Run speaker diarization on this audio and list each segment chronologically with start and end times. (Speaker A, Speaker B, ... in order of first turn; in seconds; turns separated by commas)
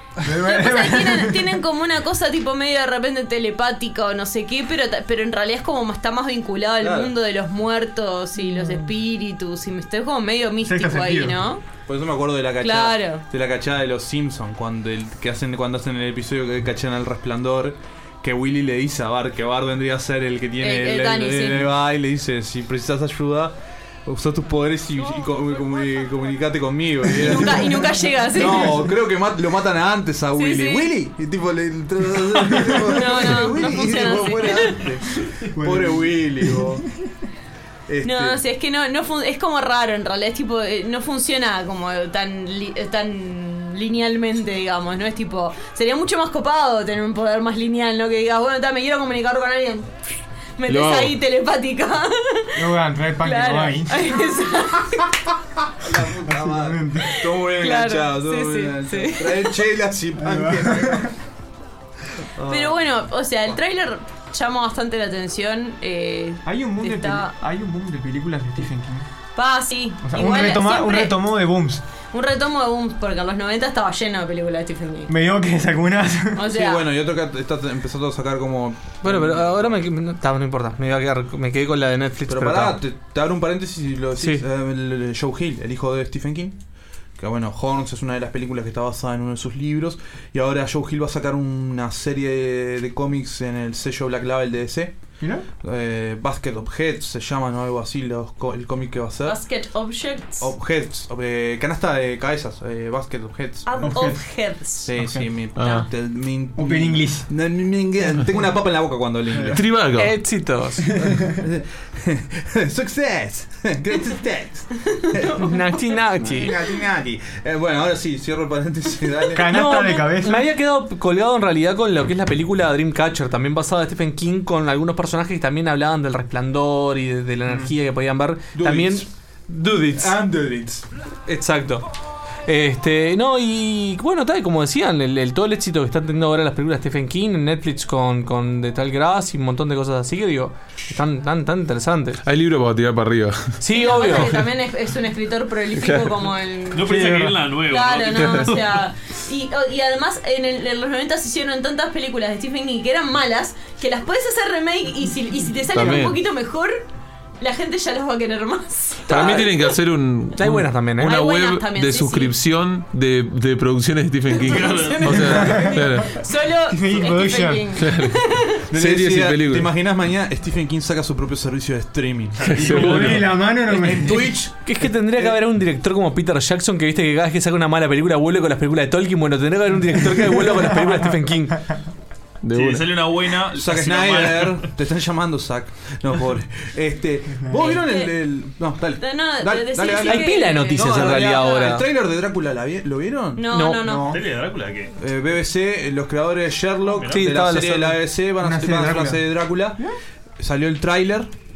Speaker A: 0.2-1.5, Speaker B: 0.4-11.6, Speaker C: 6.8-7.1, Speaker A: 10.6-11.4, Speaker C: 11.8-36.8, Speaker B: 12.6-13.2, Speaker B: 20.6-21.7, Speaker B: 27.1-28.8, Speaker B: 30.4-30.9, Speaker B: 32.8-34.9, Speaker A: 35.5-36.8, Speaker C: 37.9-38.4, Speaker B: 38.0-49.9, Speaker B: 50.6-52.6, Speaker D: 50.7-51.1, Speaker A: 52.6-54.1, Speaker B: 53.2-55.1, Speaker C: 55.8-61.1, Speaker A: 56.3-57.1, Speaker B: 57.6-59.5, Speaker A: 60.2-61.1, Speaker C: 62.4-62.8, Speaker B: 62.5-67.3, Speaker A: 66.4-69.1, Speaker B: 69.3-71.2, Speaker A: 70.0-71.8, Speaker B: 72.1-75.1, Speaker A: 75.1-76.4, Speaker B: 76.3-76.8, Speaker C: 76.5-79.8, Speaker E: 79.0-82.8, Speaker C: 82.3-86.6, Speaker C: 87.2-94.9, Speaker C: 95.6-99.4, Speaker B: 99.2-100.5, Speaker C: 100.4-103.9, Speaker B: 103.7-104.9, Speaker A: 103.8-104.2, Speaker C: 104.8-109.6, Speaker A: 105.0-105.2, Speaker D: 105.5-105.8, Speaker A: 106.6-107.2, Speaker D: 109.5-110.2, Speaker E: 109.9-110.9, Speaker C: 111.0-115.6, Speaker E: 115.3-116.5, Speaker C: 116.2-119.5, Speaker A: 119.3-120.4, Speaker E: 119.5-130.2, Speaker C: 128.5-129.1, Speaker C: 130.0-130.8, Speaker E: 131.3-131.8, Speaker E: 132.4-142.2, Speaker D: 142.2-144.3, Speaker E: 143.6-144.4, Speaker B: 143.7-147.0, Speaker D: 145.8-146.1, Speaker F: 146.7-148.9, Speaker A: 146.9-147.3, Speaker B: 147.6-156.8, Speaker D: 148.2-148.5, Speaker D: 155.7-156.2, Speaker B: 157.4-159.6, Speaker D: 159.1-166.1, Speaker E: 159.1-159.4, Speaker E: 160.3-161.2, Speaker B: 161.0-162.3, Speaker B: 164.4-168.6, Speaker F: 164.4-165.5, Speaker A: 165.3-165.8, Speaker A: 166.7-167.7, Speaker D: 167.8-168.2, Speaker D: 168.7-169.7, Speaker C: 168.7-173.2, Speaker F: 172.4-173.4, Speaker D: 172.4-173.2, Speaker A: 172.6-174.3, Speaker C: 173.7-175.4, Speaker E: 174.1-181.6, Speaker D: 182.4-183.0, Speaker F: 182.5-184.7, Speaker C: 183.5-194.2, Speaker A: 187.4-187.6, Speaker B: 187.6-188.1, Speaker B: 189.0-191.7, Speaker E: 190.0-191.8, Speaker B: 193.3-194.1, Speaker E: 193.5-193.9, Speaker F: 194.1-194.9, Speaker C: 195.0-199.8, Speaker F: 196.8-197.3, Speaker E: 197.1-198.0, Speaker A: 198.4-199.2, Speaker C: 200.4-201.3